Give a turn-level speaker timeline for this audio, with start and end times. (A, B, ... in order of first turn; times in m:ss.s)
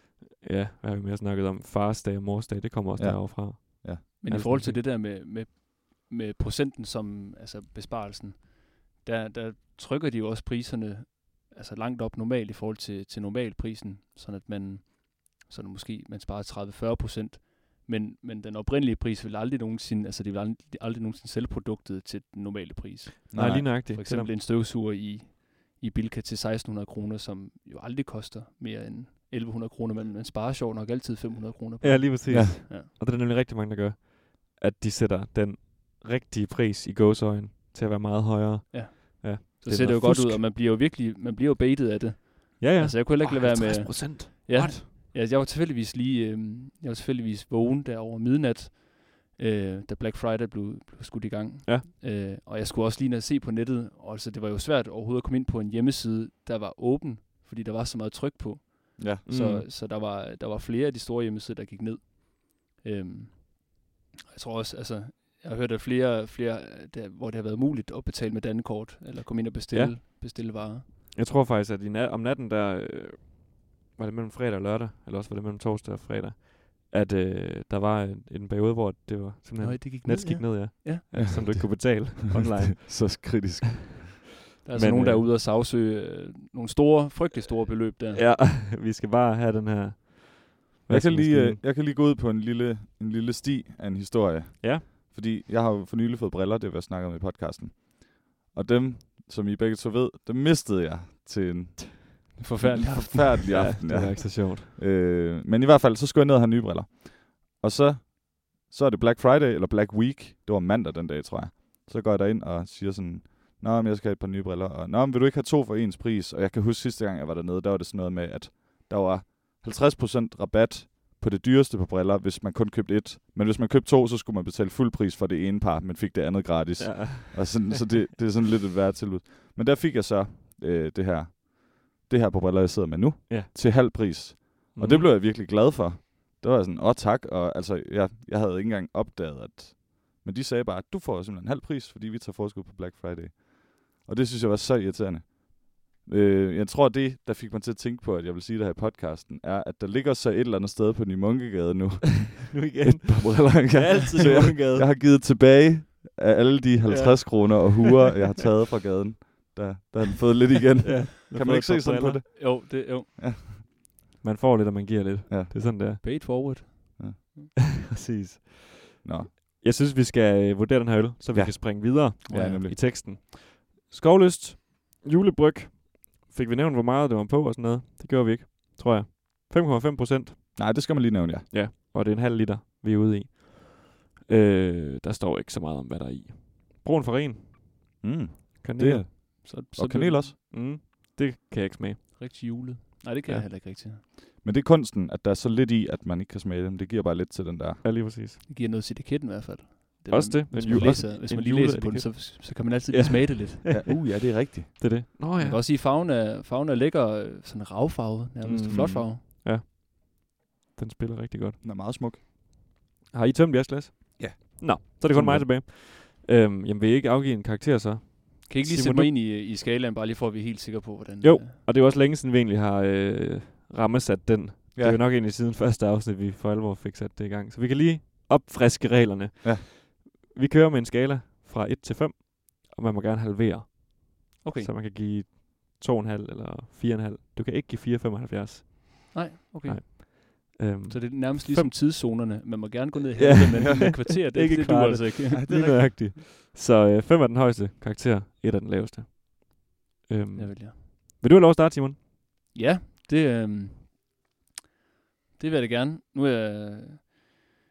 0:00.4-0:04.8 A
0:03.0-0:04.0 B
0:04.2-0:32.9 C
0:23.3-0:23.7 B
0:23.3-0:24.3 A
0:31.8-0:40.4 A
0:32.3-0:32.6 B
0:38.7-1:10.9 C
0:42.6-0:44.9 A
0:59.0-0:59.2 B
0:59.3-0:59.6 A
1:11.1-1:23.5 A
1:19.6-1:21.3 C
1:21.1-1:24.2 B
1:24.6-1:28.2 C
1:24.8-1:25.3 A
1:28.1-1:31.6 A
1:30.9-2:43.6 B
1:42.4-1:43.6 C
1:43.5-1:44.7 A
2:06.8-2:07.6 A
2:13.3-2:14.0 A
2:14.7-2:15.1 A
2:32.5-2:34.9 A
2:40.8-2:42.2 A
2:42.3-2:43.1 C
2:44.2-2:46.6 A
2:45.3-2:46.0 B
2:46.0-2:47.5 C
2:47.9-3:00.4 A
2:49.0-2:49.3 B
2:51.3-2:52.8 B
2:52.3-2:52.6 C
3:00.6-3:01.5 B
3:01.5-3:07.8 A
3:08.0-3:10.4 B
3:08.6-3:09.1 A
3:09.3-3:10.3 C
3:10.5-3:12.6 A
3:12.2-3:14.0 C
3:14.4-3:17.8 B
3:17.8-3:18.4 A
3:18.5-3:23.8 C
3:20.1-3:25.6 A
3:23.7-3:24.8 B
3:25.4-3:29.2 C
3:28.4-3:31.6 A
3:28.7-3:29.0 B
3:31.6-3:32.2 B
3:33.1-3:39.1 A
3:34.2-3:35.5 B
3:38.5-3:41.5 C
3:41.2-4:01.8 A
3:44.8-3:45.0 B
3:54.4-3:54.7 C
3:59.1-4:00.2 C
4:00.9-4:05.8 C
4:03.2-4:12.0 A
4:05.3-4:06.0 B
4:10.4-4:10.8 C
4:12.5-4:14.0 C
4:15.4-4:17.3 C